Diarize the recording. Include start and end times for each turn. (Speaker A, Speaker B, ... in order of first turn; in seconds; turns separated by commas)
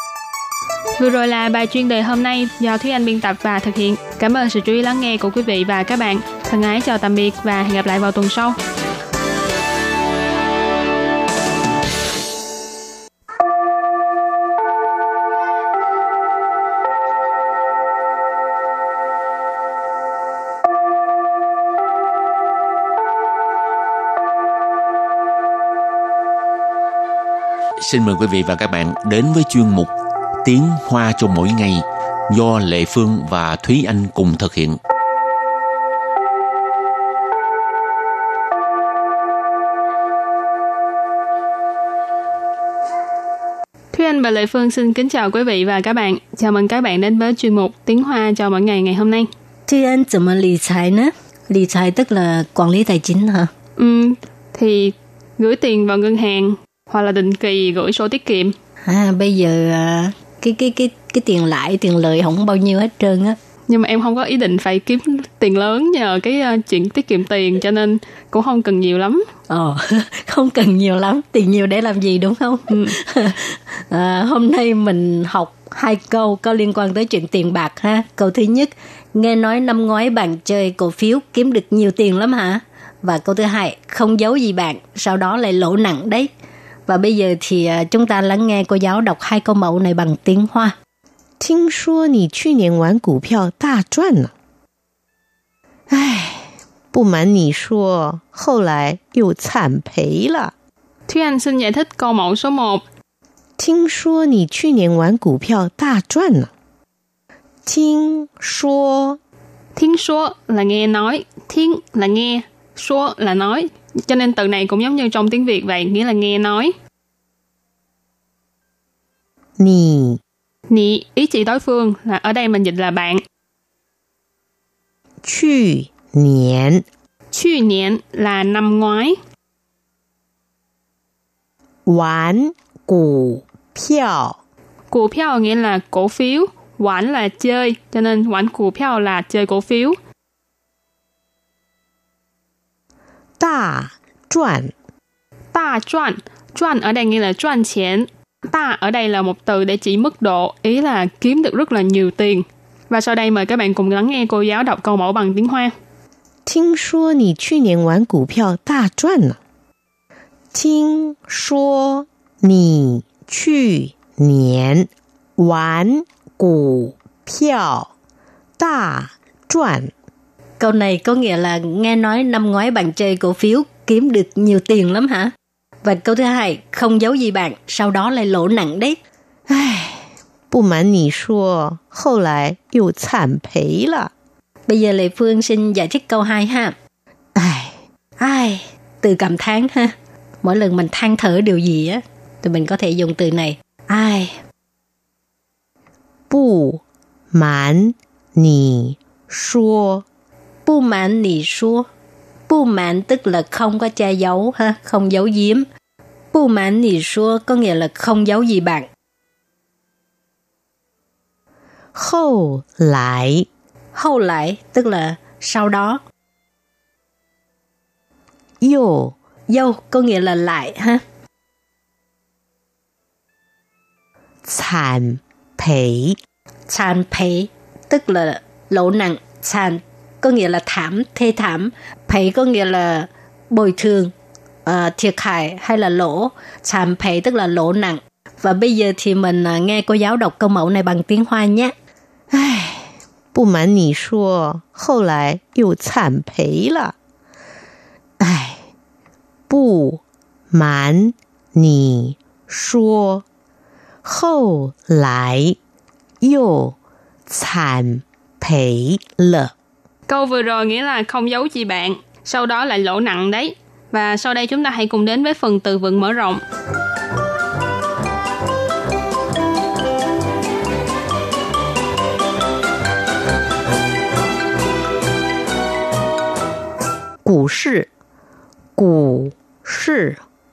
Speaker A: 1.0-8.6, Speaker B: 27.8-29.9, Speaker B: 30.4-34.8, Speaker A: 43.9-49.3, Speaker C: 49.7-53.5, Speaker A: 53.8-58.5, Speaker C: 58.9-63.4, Speaker A: 63.7-69.2, Speaker C: 69.5-86.3, Speaker A: 72.7-72.9, Speaker C: 86.9-90.7, Speaker D: 91.4-94.3, Speaker D: 95.9-100.5, Speaker A: 101.1-102.8, Speaker D: 103.6-106.5, Speaker D: 107.7-109.2, Speaker A: 109.8-116.7, Speaker D: 119.6-120.2, Speaker A: 120.7-123.2, Speaker D: 125.2-126.8, Speaker A: 127.3-129.2, Speaker D: 131.9-134.4, Speaker A: 134.9-140.0, Speaker D: 143.4-144.7, Speaker A: 145.5-155.7, Speaker D: 156.4-159.4, Speaker D: 160.5-167.9, Speaker D: 168.6-169.9, Speaker C: 170.6-175.3, Speaker C: 175.8-179.0, Speaker D: 179.5-179.9, Speaker D: 180.5-184.1, Speaker C: 184.7-186.7, Speaker C: 188.2-194.4, Speaker D: 196.3-200.0, Speaker C: 200.7-201.8, Speaker C: 202.5-205.6, Speaker C: 206.3-208.9, Speaker D: 211.9-213.5, Speaker C: 213.9-216.0, Speaker D: 218.6-219.1, Speaker C: 219.5-221.0, Speaker D: 224.4-226.2, Speaker C: 226.7-234.1, Speaker C: 234.7-241.7, Speaker D: 242.3-242.8, Speaker D: 243.3-246.9, Speaker D: 248.2-248.6, Speaker D: 249.5-253.2, Speaker D: 254.0-255.6, Speaker D: 256.2-256.8, Speaker D: 257.3-259.5, Speaker A: 260.1-266.4, Speaker D: 277.2-277.9, Speaker D: 278.8-280.2